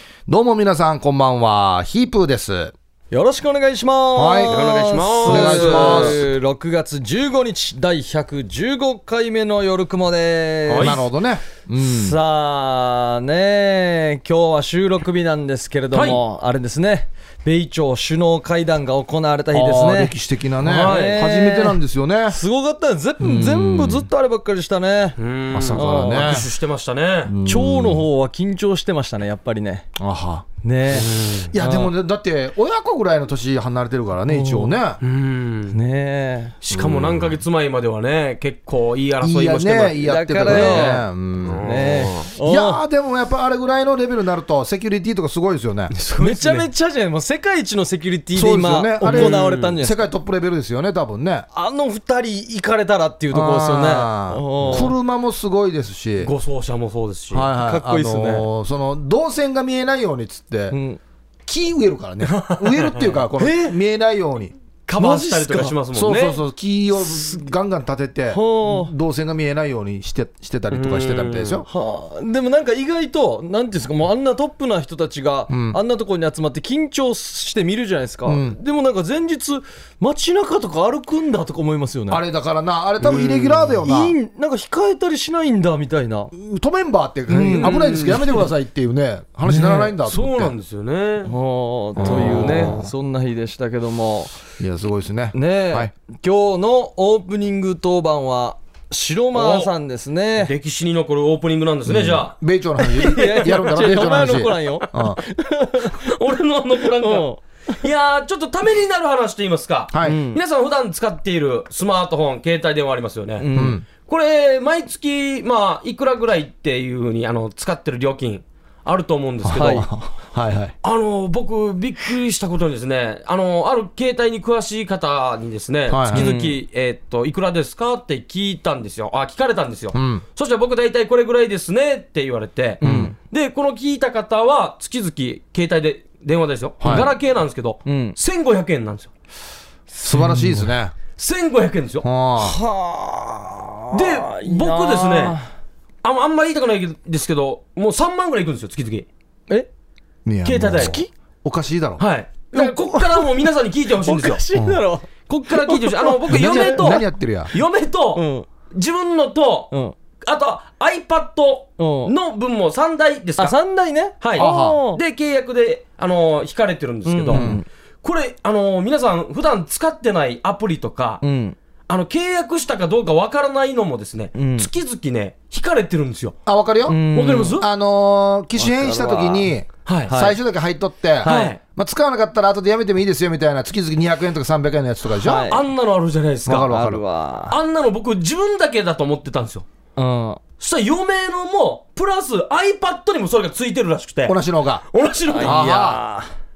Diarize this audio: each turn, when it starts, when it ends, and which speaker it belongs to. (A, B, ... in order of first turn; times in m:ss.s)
0:00.3-0:02.7 A
0:03.1-0:11.0 B
0:04.1-0:04.5 A
0:04.5-0:06.2 C
0:05.2-0:06.2 A
0:10.7-0:11.0 C
0:10.8-0:12.2 A
0:11.8-0:25.2 B
0:15.9-0:16.2 C
0:19.5-0:22.4 A
0:20.6-0:21.2 C
0:23.2-0:24.1 A
0:25.2-0:27.3 C
0:25.5-0:26.5 A
0:25.7-0:26.4 B
0:27.2-0:28.1 A
0:27.4-0:29.9 B
0:30.0-0:35.0 A
0:30.6-0:31.9 B
0:30.9-0:31.5 C
0:34.3-0:34.8 B
0:35.0-0:35.8 C
0:35.7-0:36.5 B
0:36.6-0:42.3 C
0:36.7-0:37.4 A
0:39.2-0:41.9 A
0:40.0-0:41.0 B
0:41.6-0:42.8 B
0:42.4-0:45.9 A
0:45.9-0:46.6 C
0:46.2-0:50.0 B
0:48.3-0:51.5 A
0:49.0-0:49.8 C
0:51.5-0:54.9 B
0:53.3-0:56.3 A
0:56.2-0:57.5 C
0:57.3-1:00.8 A
0:57.6-0:58.5 B
1:00.7-1:01.0 B
1:01.5-1:04.5 A
1:02.3-1:03.1 C
1:03.4-1:03.8 B
1:04.9-1:06.4 C
1:05.0-1:05.7 B
1:05.9-1:11.6 A
1:08.3-1:08.9 B
1:10.7-1:11.6 C
1:11.7-1:22.2 B
1:15.5-1:15.8 A
1:18.2-1:18.6 A
1:22.1-1:24.1 A
1:23.0-1:23.7 C
1:23.8-1:26.3 B
1:26.3-1:30.5 A
1:27.3-1:27.8 B
1:27.6-1:28.5 C
1:29.5-1:29.8 B
1:29.6-1:31.3 C
1:31.2-1:34.3 B
1:32.0-1:32.9 A
1:32.0-1:32.7 C
1:34.6-1:35.9 A
1:35.3-1:40.5 B
1:39.3-1:39.7 C
1:40.4-1:42.3 C
1:41.8-1:45.2 A
1:42.9-1:46.0 B
1:45.9-1:53.4 C
1:47.0-1:47.4 B
1:49.9-1:50.2 A
1:50.0-1:50.4 B
1:53.4-1:53.8 B
1:53.5-1:53.8 A
1:54.0-1:59.9 C
1:59.4-2:00.7 A
1:59.6-1:59.8 B
2:00.8-2:19.1 C
2:05.9-2:06.3 A
2:06.1-2:06.6 B
2:09.9-2:10.2 A
2:12.8-2:13.1 B
2:12.8-2:13.1 A
2:16.8-2:17.1 A
2:17.8-2:18.2 B
2:20.0-2:20.7 B
2:20.0-2:20.9 A
2:21.2-2:22.0 C
2:22.0-2:22.6 A
2:22.4-2:25.4 B
2:23.9-2:25.4 C
2:26.0-2:29.1 C
2:30.2-2:32.0 A
2:30.4-2:31.0 C
2:30.8-2:31.1 B
2:32.0-2:34.4 C
2:32.5-2:33.2 B
2:34.0-2:37.0 B
2:34.5-2:34.8 A
2:35.3-2:39.7 C
2:36.3-2:37.5 A
2:38.1-2:38.4 B
2:40.2-2:43.6 C
2:41.8-2:42.1 B
2:43.4-2:45.0 B
2:44.2-2:47.5 C
2:44.4-2:44.8 A
2:47.0-2:47.6 B
2:47.3-2:47.6 A
2:48.0-2:51.2 C
2:51.2-2:51.6 B
2:51.9-2:56.4 C
2:54.3-2:54.7 B
2:56.4-2:57.0 A
2:56.9-2:57.6 B
2:57.1-2:57.6 C
2:57.6-3:05.4 A
2:58.6-2:59.5 B
2:59.8-3:00.1 C
3:00.1-3:00.4 B
3:01.2-3:01.6 B
3:01.2-3:01.6 C
3:05.2-3:05.6 B
3:05.5-3:06.7 C
3:06.4-3:07.0 A
3:06.7-3:07.6 B
3:07.5-3:09.6 C
3:10.0-3:10.4 B
3:10.6-3:14.4 C
3:14.3-3:14.8 A
3:14.9-3:15.6 C
3:15.3-3:16.3 B
3:15.4-3:16.0 A